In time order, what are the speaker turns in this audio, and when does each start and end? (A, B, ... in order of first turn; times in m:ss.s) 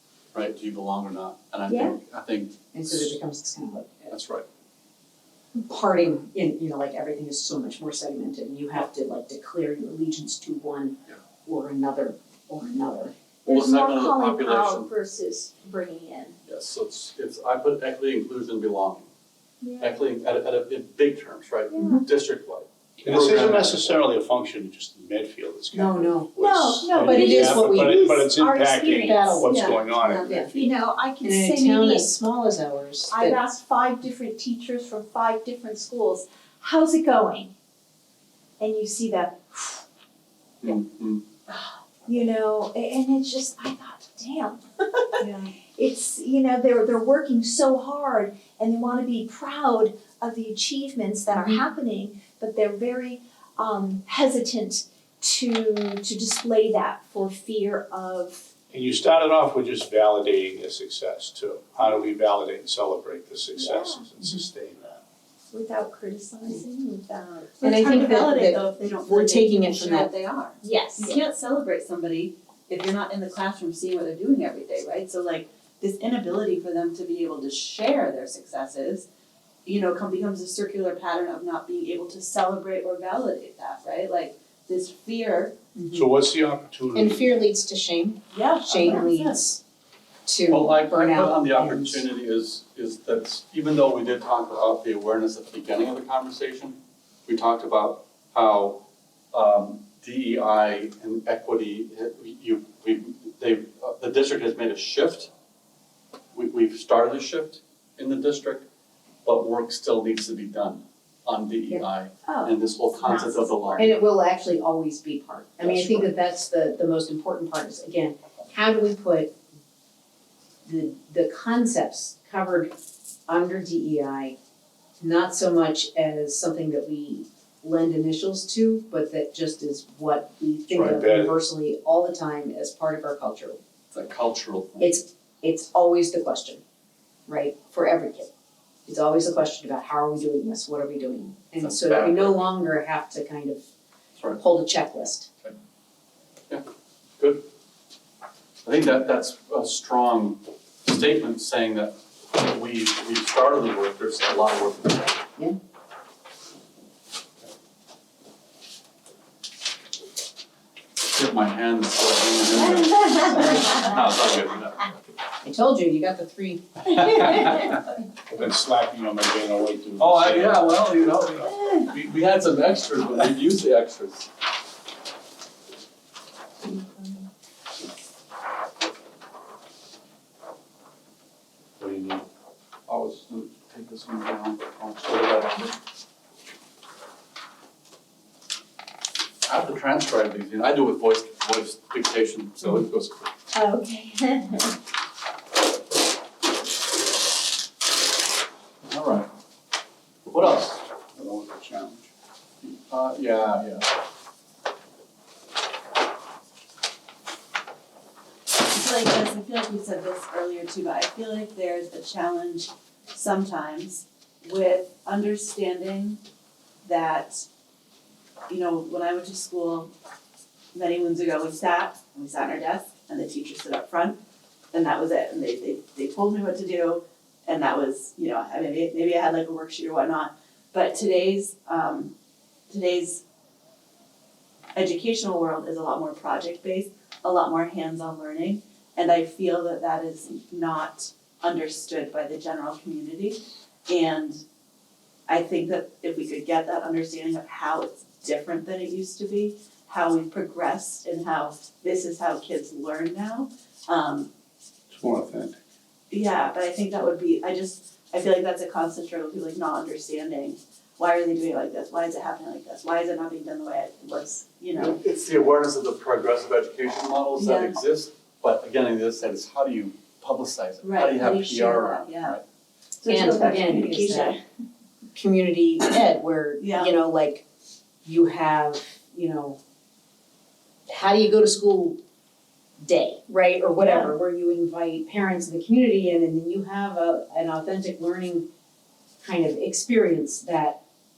0:00.3-0:03.2 A
0:01.7-0:02.0 B
0:02.7-0:04.1 C
0:04.1-0:04.5 A
0:05.6-0:13.1 C
0:13.5-0:14.9 A
0:13.5-0:16.4 B
0:16.5-0:19.1 A
0:19.6-0:20.0 B
0:19.8-0:24.0 A
0:21.7-0:22.0 B
0:23.0-0:30.7 D
0:25.7-0:28.4 C
0:26.4-0:32.1 B
0:28.9-0:30.5 C
0:31.2-0:33.4 C
0:33.1-0:37.5 B
0:38.6-0:39.8 B
0:40.6-0:41.2 A
0:41.5-0:58.5 B
0:45.2-0:45.5 E
0:58.7-1:05.0 D
1:03.6-1:04.1 B
1:05.5-1:07.6 B
1:07.6-1:19.1 E
1:07.6-1:10.1 C
1:10.6-1:11.2 B
1:19.7-1:25.6 E
1:25.8-1:26.1 C
1:25.9-1:27.4 D
1:26.9-1:29.6 C
1:28.3-1:29.4 E
1:30.2-1:32.0 C
1:30.5-1:45.3 A
1:46.3-1:48.7 A
1:49.2-1:54.1 A
1:52.2-1:53.7 B
1:53.8-1:59.3 C
1:55.6-1:56.1 A
2:00.6-2:02.7 C
2:03.3-2:04.3 C
2:05.0-2:13.6 C
2:10.8-2:11.4 D
2:13.9-2:15.0 A
2:14.8-2:16.6 C
2:17.3-2:18.3 C
2:18.8-2:23.6 C
2:21.6-2:22.5 A
2:24.4-2:25.3 C
2:27.2-2:27.5 A
2:28.6-2:35.2 A
2:41.0-2:45.0 A
2:45.4-2:47.6 C
2:46.9-2:47.8 A
2:48.3-2:51.5 D
2:50.0-2:54.3 A
3:01.8-3:02.2 D
3:02.9-3:05.8 A
3:09.4-3:13.3 A
3:13.5-3:14.8 B
3:18.8-3:19.3 A
3:20.3-3:20.8 A
3:21.2-3:22.1 D
3:22.6-3:23.9 A
3:28.5-3:36.2 E
3:36.8-3:37.5 E
3:38.5-3:39.9 E
3:40.7-3:44.2 E
3:44.7-3:52.1 E
3:52.7-3:53.2 E
3:54.8-4:04.4 E
4:05.3-4:14.3 E
4:14.9-4:15.6 D
4:16.1-4:25.0 E
4:24.8-4:32.4 A
4:27.4-4:27.8 E
4:30.8-4:32.4 E
4:33.0-4:34.4 E
4:33.1-4:34.4 C
4:35.1-4:37.4 C
4:36.6-4:36.9 E
4:38.0-4:39.6 C
4:40.9-4:42.0 C
4:42.8-4:48.5 C
4:43.8-4:44.1 E
4:49.2-4:50.8 C